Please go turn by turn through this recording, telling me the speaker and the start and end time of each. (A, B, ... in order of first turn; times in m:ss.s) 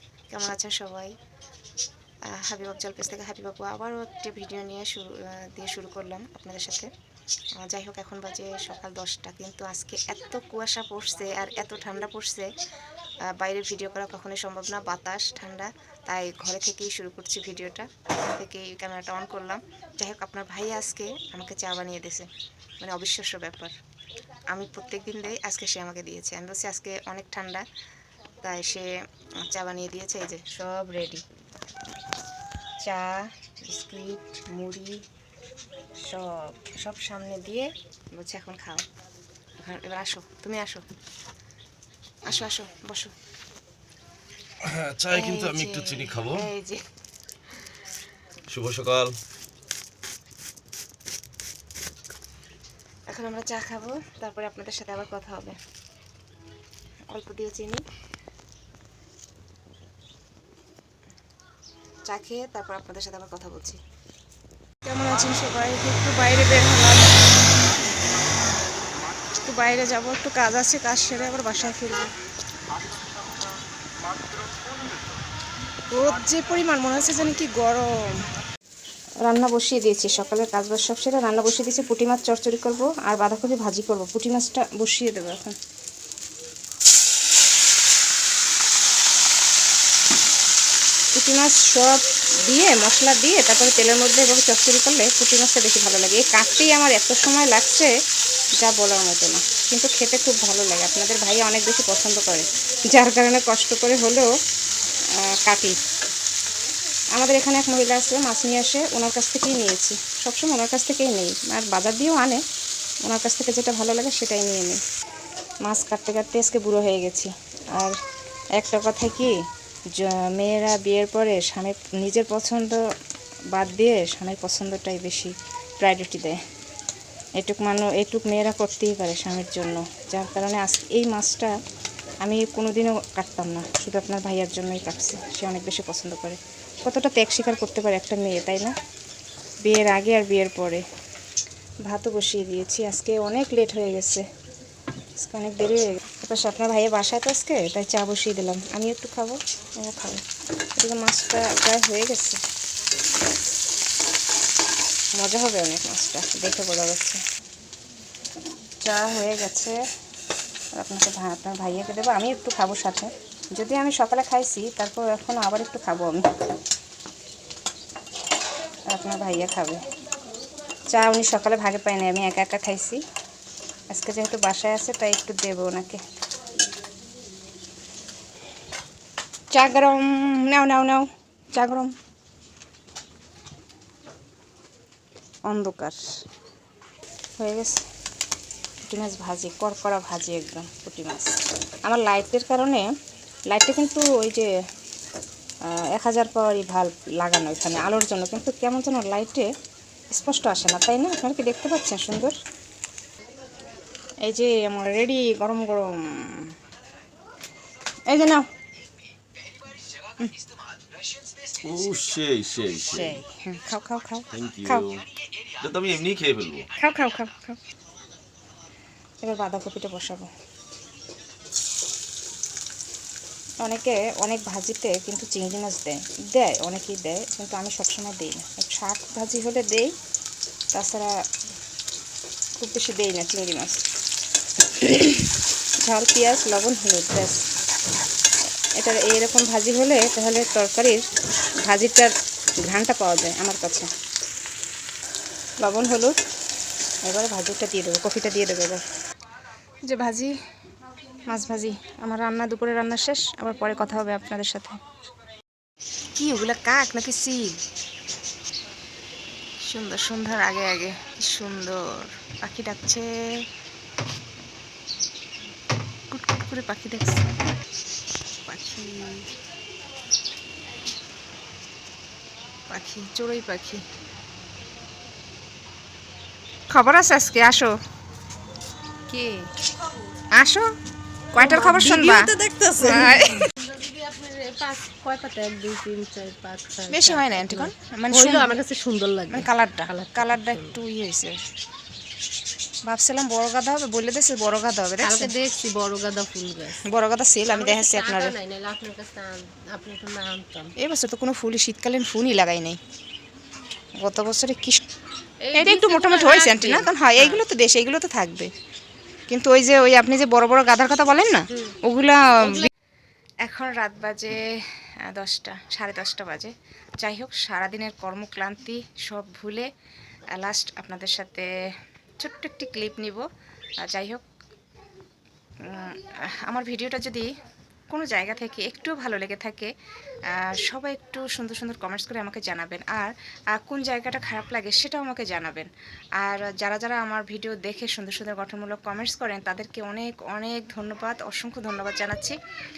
0:00.3-0:01.1 A
0:02.3-0:06.9 A
0:07.6-0:12.5 A
0:13.3-0:22.3 A
0:22.8-0:23.7 A
0:24.5-0:27.6 A
0:28.4-0:31.2 A
0:32.8-0:35.0 A
0:36.0-0:38.9 A
0:39.6-0:40.8 A
0:42.2-0:43.1 A
0:44.6-0:46.5 B
0:45.1-0:46.9 A
0:48.5-0:49.2 B
0:53.1-0:55.6 A
0:57.1-0:57.8 A
1:02.1-1:03.8 A
1:04.8-1:07.2 A
1:09.3-1:12.1 A
1:15.9-1:18.2 A
1:19.2-1:25.6 A
1:31.2-1:37.9 A
1:38.6-1:44.3 A
1:45.2-1:45.8 A
1:47.2-1:52.4 A
1:53.0-1:54.8 A
1:55.6-1:58.0 A
1:58.6-1:59.4 A
2:00.0-2:02.8 A
2:03.5-2:06.4 A
2:07.4-2:11.5 A
2:12.2-2:18.7 A
2:19.6-2:20.8 A
2:21.8-2:24.2 A
2:25.2-2:30.2 A
2:30.8-2:32.4 A
2:35.2-2:37.2 A
2:38.8-2:39.8 A
2:40.8-2:46.3 A
2:48.9-2:49.8 A
2:50.9-2:53.0 A
2:53.9-2:56.0 A
2:59.5-3:01.9 A
3:05.5-3:06.0 A
3:07.4-3:07.8 A
3:08.9-3:11.3 A
3:11.8-3:12.9 A
3:13.5-3:14.5 A
3:15.7-3:19.5 A
3:20.1-3:22.4 A
3:24.2-3:26.5 A
3:28.1-3:28.5 A
3:31.6-3:33.2 B
3:32.9-3:34.9 A
3:34.3-3:35.0 B
3:35.6-3:36.7 B
3:36.8-3:37.6 A
3:39.2-3:40.3 A
3:43.6-3:49.9 A
3:50.7-3:51.1 A
3:52.6-3:53.8 A
3:54.8-3:57.4 A
3:58.8-4:01.0 A
4:01.7-4:02.1 A
4:02.6-4:03.9 A
4:05.6-4:06.1 A
4:07.0-4:08.8 A
4:09.9-4:10.3 A
4:11.3-4:14.8 A
4:16.2-4:17.6 A
4:19.7-4:23.2 A
4:26.1-4:27.4 A
4:28.5-4:29.3 A
4:32.7-4:33.8 A
4:36.7-4:37.8 A
4:39.1-4:39.5 A
4:40.3-4:40.7 A
4:41.3-4:43.5 A
4:41.4-4:50.8 C
4:46.9-4:48.6 A
4:49.3-4:51.4 A
4:52.9-4:55.3 A
4:55.0-4:56.8 C
4:56.8-4:58.3 A
4:57.5-5:00.7 C
5:00.8-5:02.8 A
5:04.0-5:04.8 A
5:05.4-5:07.4 C
5:05.5-5:08.5 A
5:09.3-5:12.7 A
5:13.4-5:14.4 A
5:15.1-5:19.7 A
5:20.3-5:21.5 A
5:22.2-5:23.2 A
5:23.8-5:24.2 A
5:25.7-5:27.2 A
5:27.9-5:29.7 A
5:30.3-5:35.7 A
5:36.2-5:42.4 A